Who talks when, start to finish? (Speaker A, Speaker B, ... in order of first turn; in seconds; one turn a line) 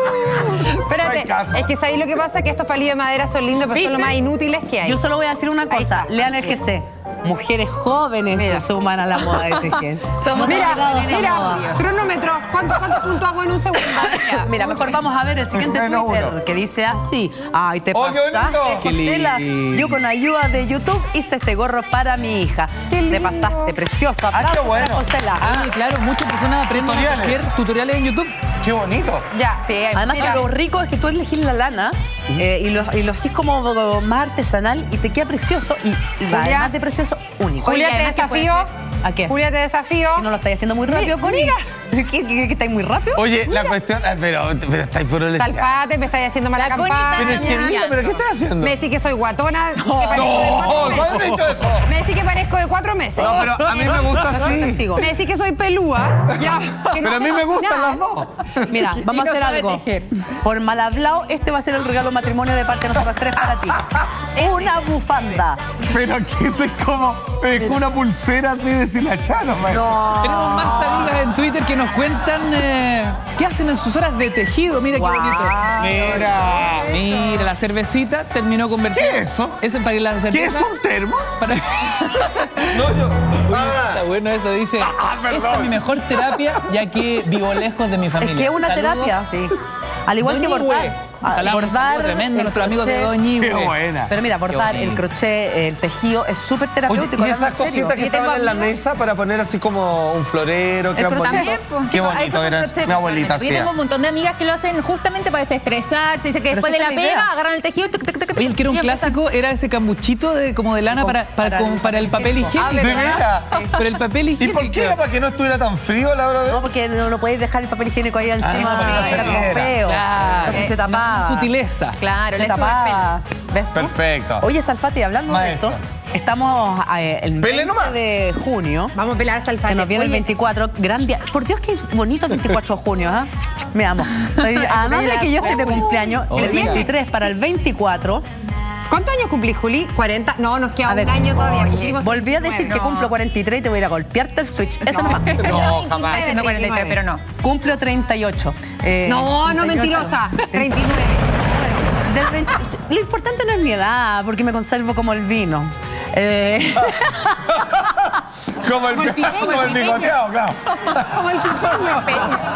Speaker A: 0.7-5.0
Speaker B: 1.0-1.7
Speaker C: 3.7-4.2
Speaker D: 4.8-11.7
Speaker A: 5.7-6.6
Speaker C: 8.4-8.6
Speaker C: 9.4-11.8
Speaker A: 10.4-14.7
Speaker D: 13.9-25.7
Speaker C: 14.1-14.5
Speaker B: 15.6-16.3
Speaker B: 17.9-18.9
Speaker E: 18.8-20.0
Speaker A: 22.9-23.8
Speaker B: 24.3-25.1
Speaker E: 25.4-28.4
Speaker B: 26.7-27.4
Speaker B: 28.6-29.3
Speaker A: 29.3-30.4
Speaker C: 29.6-30.5
Speaker D: 29.9-37.9
Speaker A: 36.3-36.7
Speaker A: 37.6-38.7
Speaker C: 37.6-38.7
Speaker D: 39.0-39.3
Speaker A: 39.3-40.3
Speaker D: 40.1-43.3
Speaker A: 40.9-41.5
Speaker B: 43.1-45.7
Speaker A: 45.4-47.9
Speaker C: 46.5-48.2
Speaker B: 47.1-48.8
Speaker A: 48.6-54.4
Speaker B: 50.1-51.9
Speaker B: 53.1-54.9
Speaker D: 53.8-55.1
Speaker A: 55.0-58.0
Speaker B: 57.0-58.7
Speaker D: 58.7-59.9
Speaker C: 59.0-60.0
Speaker D: 60.4-63.8
Speaker D: 64.3-65.6
Speaker C: 64.4-64.7
Speaker B: 65.9-70.0
Speaker D: 69.7-71.2
Speaker E: 70.2-75.7
Speaker D: 74.9-76.5
Speaker B: 75.8-76.9
Speaker E: 76.9-80.7
Speaker C: 77.0-77.5
Speaker B: 78.9-79.6
Speaker B: 80.3-81.4
Speaker E: 81.4-82.7
Speaker B: 82.6-84.0
Speaker E: 83.5-89.2
Speaker B: 84.8-86.6
Speaker D: 88.2-89.5
Speaker D: 90.1-93.1
Speaker E: 90.2-93.8
Speaker B: 93.4-94.1
Speaker D: 94.1-98.0
Speaker E: 94.5-95.0
Speaker B: 96.9-103.7
Speaker C: 97.9-98.8
Speaker D: 101.0-101.6
Speaker C: 101.2-109.2
Speaker D: 106.5-107.3
Speaker E: 108.3-113.2
Speaker D: 110.9-112.6
Speaker C: 112.5-113.3
Speaker B: 112.8-113.7
Speaker E: 113.7-115.0
Speaker B: 114.4-116.6
Speaker D: 116.5-121.5
Speaker B: 118.4-119.8
Speaker E: 118.5-122.0
Speaker A: 118.7-119.3
Speaker C: 120.5-120.7
Speaker C: 122.0-123.1
Speaker D: 122.3-128.9
Speaker B: 123.7-124.4
Speaker B: 125.3-125.8
Speaker B: 127.4-128.0
Speaker A: 128.9-130.2
Speaker D: 129.6-138.2
Speaker C: 134.4-136.9
Speaker E: 136.3-136.9
Speaker A: 138.9-142.9
Speaker D: 140.8-145.5
Speaker C: 141.4-142.0
Speaker C: 142.6-143.1
Speaker C: 145.0-147.2
Speaker B: 145.4-146.2
Speaker A: 145.4-147.0
Speaker D: 147.4-150.7
Speaker A: 149.1-151.7
Speaker D: 152.0-157.4
Speaker B: 158.6-161.1
Speaker A: 158.9-160.2
Speaker A: 160.9-162.2
Speaker C: 162.0-162.4